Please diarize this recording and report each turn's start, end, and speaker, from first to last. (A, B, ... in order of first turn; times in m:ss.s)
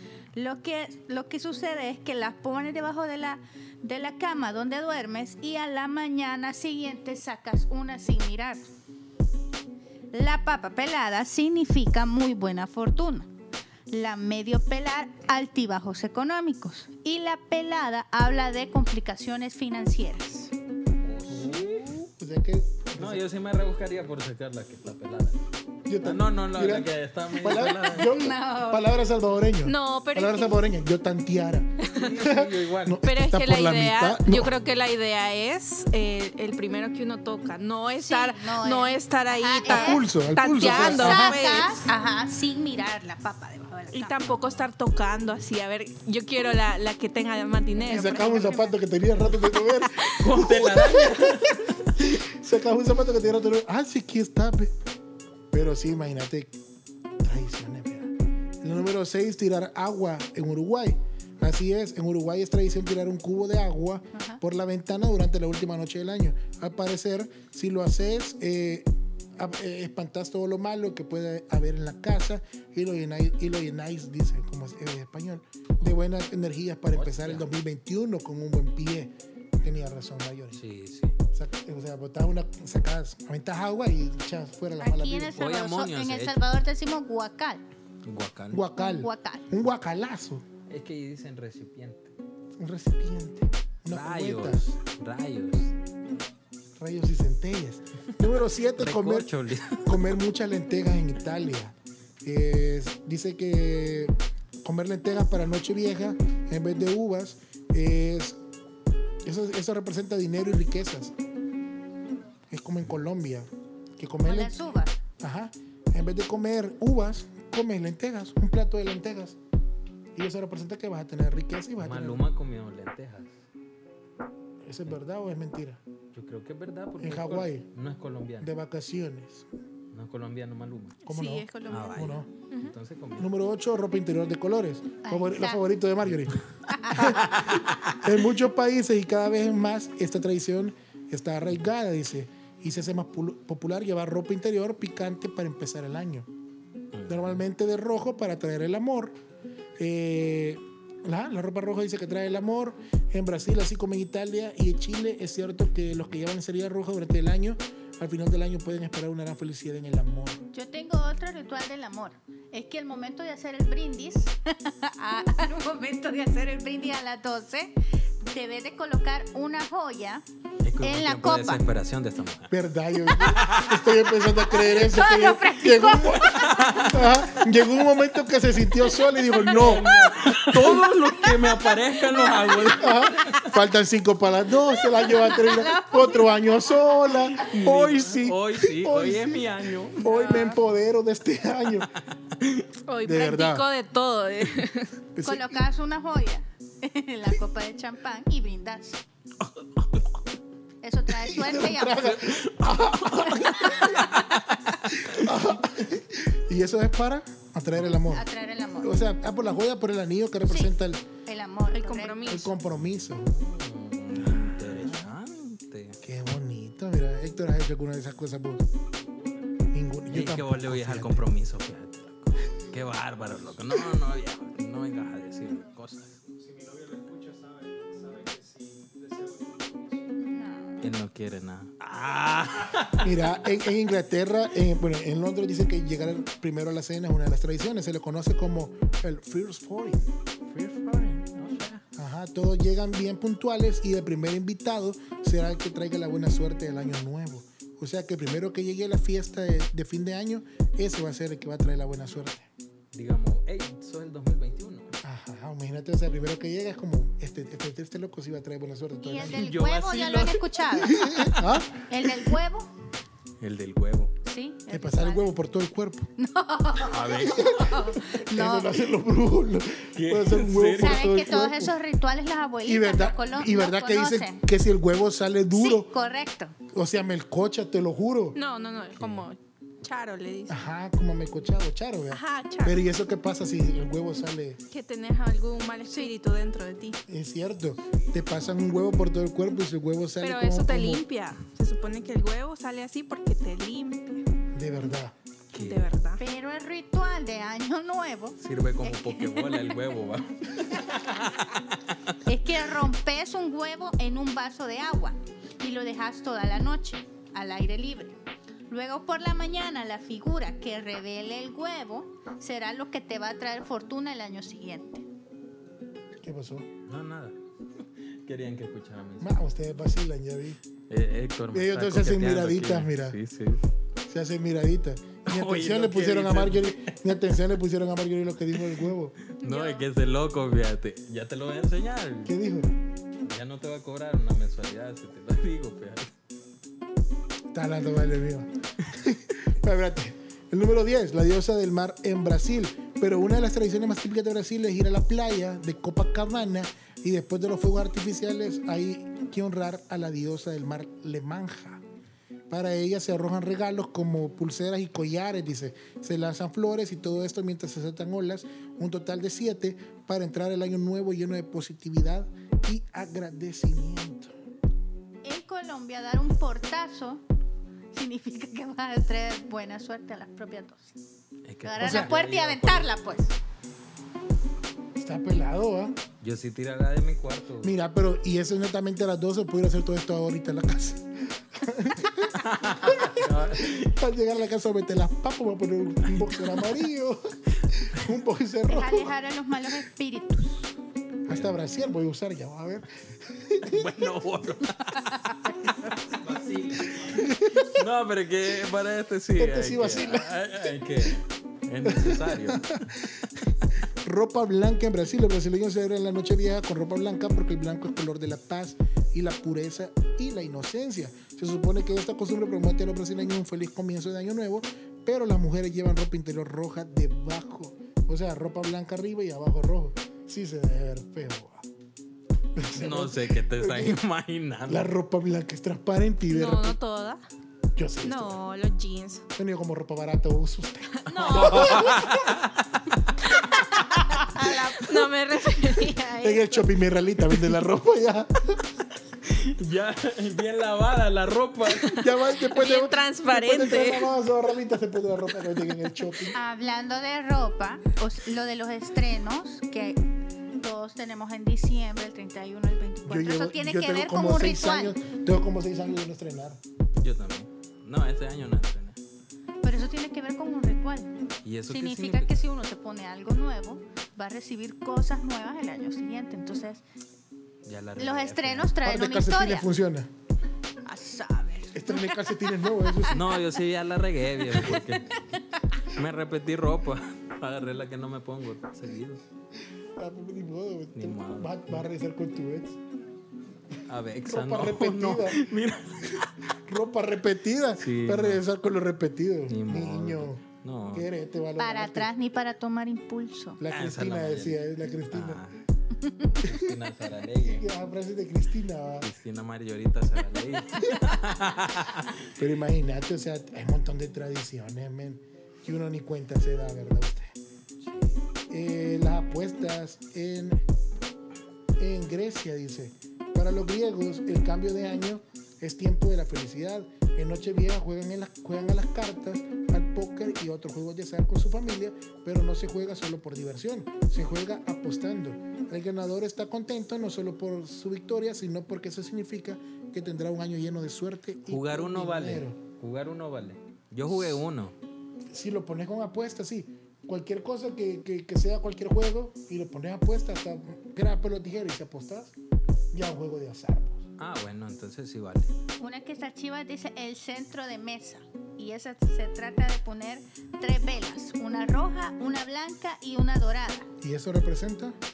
0:00.3-0:08.7 A
0:10.1-0:13.3 A
0:13.9-0:20.5 A
0:21.0-0:22.0 B
0:21.3-0:23.2 C
0:23.0-0:25.4 B
0:25.9-0:34.6 C
0:26.0-0:28.1 B
0:27.7-0:29.0 A
0:29.6-0:30.6 D
0:31.8-0:32.1 D
0:31.9-0:33.0 B
0:33.0-0:41.9 D
0:38.0-0:40.0 A
0:39.6-0:41.5 C
0:40.6-0:44.4 A
0:43.9-0:48.7 D
0:47.8-0:54.7 C
0:49.7-0:50.1 D
0:50.1-0:51.9 B
0:55.5-0:56.5 C
0:57.2-1:20.6 C
1:04.1-1:04.4 A
1:16.9-1:17.5 B
1:20.5-1:21.2 B
1:21.3-1:25.4 C
1:24.8-1:27.6 A
1:25.4-1:26.4 B
1:28.0-1:28.6 B
1:28.5-1:30.4 C
1:28.8-1:29.4 A
1:30.7-1:32.1 B
1:32.6-1:34.7 C
1:33.9-1:35.7 B
1:36.8-1:48.4 C
1:38.7-1:40.0 B
1:49.2-1:51.1 C
1:52.5-1:54.6 C
1:54.2-1:55.0 A
1:55.2-1:59.4 C
2:00.1-2:02.2 C
2:01.8-2:03.4 B
2:04.6-2:05.8 C
2:06.1-2:08.5 B
2:07.0-2:07.7 C
2:08.4-2:09.5 C
2:09.9-2:11.0 B
2:11.0-2:12.7 D
2:11.0-2:12.3 C
2:11.7-2:13.3 B
2:13.2-2:26.3 C
2:15.0-2:15.6 A
2:16.7-2:17.2 A
2:17.0-2:18.0 B
2:26.9-2:27.4 B
2:27.1-2:29.2 C
2:29.8-2:40.5 C
2:40.5-2:50.2 A
2:50.6-2:54.2 B
2:50.8-2:51.6 A
2:52.5-3:00.8 C
2:54.5-2:56.8 A
2:56.3-2:57.3 B
2:59.3-3:03.5 B
3:01.2-3:02.7 A
3:02.7-3:11.9 C
3:04.8-3:07.1 A
3:07.4-3:10.1 B
3:10.0-3:10.6 D
3:12.3-3:12.7 B
3:12.9-3:14.9 D
3:13.0-3:13.6 C
3:15.1-3:15.6 C
3:15.2-3:19.0 A
3:19.4-3:20.1 B
3:20.8-3:22.2 A
3:21.1-3:24.2 C
3:22.0-3:25.3 B
3:24.9-3:28.2 C
3:28.0-3:29.0 A
3:28.8-3:31.0 C
3:30.4-3:30.7 A
3:31.2-3:32.5 A
3:31.7-3:32.5 D
3:32.2-3:33.3 C
3:32.7-3:36.0 B
3:34.1-3:35.2 C
3:36.0-3:38.6 C
3:38.8-3:39.6 E
3:39.7-3:41.3 C
3:40.1-3:46.2 B
3:42.4-3:43.8 E
3:46.2-3:50.2 E
3:50.2-3:50.9 A
3:50.8-3:53.6 B
3:53.0-4:00.1 C
4:00.5-4:01.8 B
4:01.9-4:12.5 C
4:12.9-4:15.0 B
4:15.0-4:19.5 C
4:19.0-4:22.7 A
4:19.2-4:21.5 B
4:20.9-4:21.8 C
4:23.4-4:24.1 B
4:24.2-4:25.3 A
4:24.7-4:26.1 C
4:26.2-4:28.8 A
4:26.8-4:27.9 B
4:27.2-4:31.8 C
4:29.9-4:31.2 B
4:30.7-4:34.4 A
4:32.6-4:35.9 C
4:35.5-4:36.6 A
4:36.7-4:38.4 C
4:38.3-4:40.6 D
4:39.0-4:39.3 B
4:40.5-4:44.6 C
4:42.1-4:42.8 D
4:44.7-4:47.0 D
4:47.1-4:51.0 C
4:48.3-4:48.6 B
4:50.2-4:54.2 D
4:54.5-4:55.1 C
4:55.5-4:55.9 B
4:55.5-4:56.2 D
4:56.2-4:59.8 A
4:58.4-5:02.2 B
5:02.2-5:08.2 A
5:08.7-5:15.0 A
5:16.2-5:16.7 C
5:16.8-5:19.4 B
5:19.2-5:20.6 C
5:20.9-5:23.6 B
5:21.5-5:23.2 C
5:24.1-5:29.1 C
5:25.2-5:27.0 B
5:29.3-5:32.3 B
5:29.4-5:29.8 D
5:32.2-5:32.7 C
5:33.2-5:36.1 B
5:37.5-5:51.8 C
5:52.5-6:04.3 C
6:05.2-6:07.2 A
6:07.9-6:11.0 A
6:11.4-6:12.9 B
6:11.6-6:13.4 A
6:11.8-6:12.1 C
6:15.0-6:16.0 C
6:16.2-6:17.8 B
6:17.6-6:29.1 C
6:22.3-6:23.9 B
6:26.1-6:26.7 B
6:28.7-6:30.7 A
6:31.2-6:34.1 C
6:31.3-6:31.5 B
6:33.6-6:42.8 B
6:36.2-6:37.3 E
6:37.1-6:37.8 C
6:39.4-6:41.1 C
6:41.8-6:43.3 C
6:44.0-7:01.6 C
7:02.6-7:04.0 C
7:02.7-7:04.9 B
7:04.7-7:06.8 C
7:06.3-7:07.2 D
7:07.8-7:08.4 C
7:08.0-7:09.2 D
7:09.4-7:12.2 C
7:11.0-7:12.0 D
7:11.1-7:13.1 B
7:13.3-7:13.6 D
7:14.3-7:16.4 A
7:14.3-7:16.5 D
7:16.2-7:18.6 C
7:19.2-7:22.0 B
7:21.8-7:24.1 D
7:21.9-7:26.4 C
7:26.3-7:30.0 A
7:30.6-7:34.9 A
7:33.0-7:36.6 C
7:37.0-7:39.0 B
7:39.6-7:41.1 A
7:41.4-7:42.4 B
7:41.7-7:46.8 A
7:47.6-7:48.7 B
7:48.0-7:49.7 A
7:48.8-7:50.1 C
7:50.8-7:53.4 A
7:51.7-7:53.2 C
7:53.1-7:55.2 B
7:54.5-7:55.4 A
7:55.8-7:59.2 B
8:00.0-8:02.8 C
8:00.9-8:01.9 B
8:03.8-8:06.3 B
8:04.2-8:05.4 C
8:06.6-8:12.1 C
8:07.8-8:08.4 B
8:09.5-8:11.1 B
8:11.6-8:13.6 A
8:13.6-8:15.4 C
8:13.7-8:15.6 B
8:16.0-8:16.4 A
8:16.4-8:16.7 C
8:16.4-8:17.7 B
8:17.4-8:19.1 C
8:19.0-8:22.3 B
8:22.3-8:27.4 C
8:27.8-8:28.2 B
8:28.5-8:30.6 C
8:31.8-8:52.6 C
8:51.5-8:54.7 B
8:54.1-8:54.4 C
8:55.3-9:02.4 C
9:02.9-9:04.0 C
9:04.2-9:05.5 B
9:05.8-9:13.9 A
9:14.0-9:15.0 C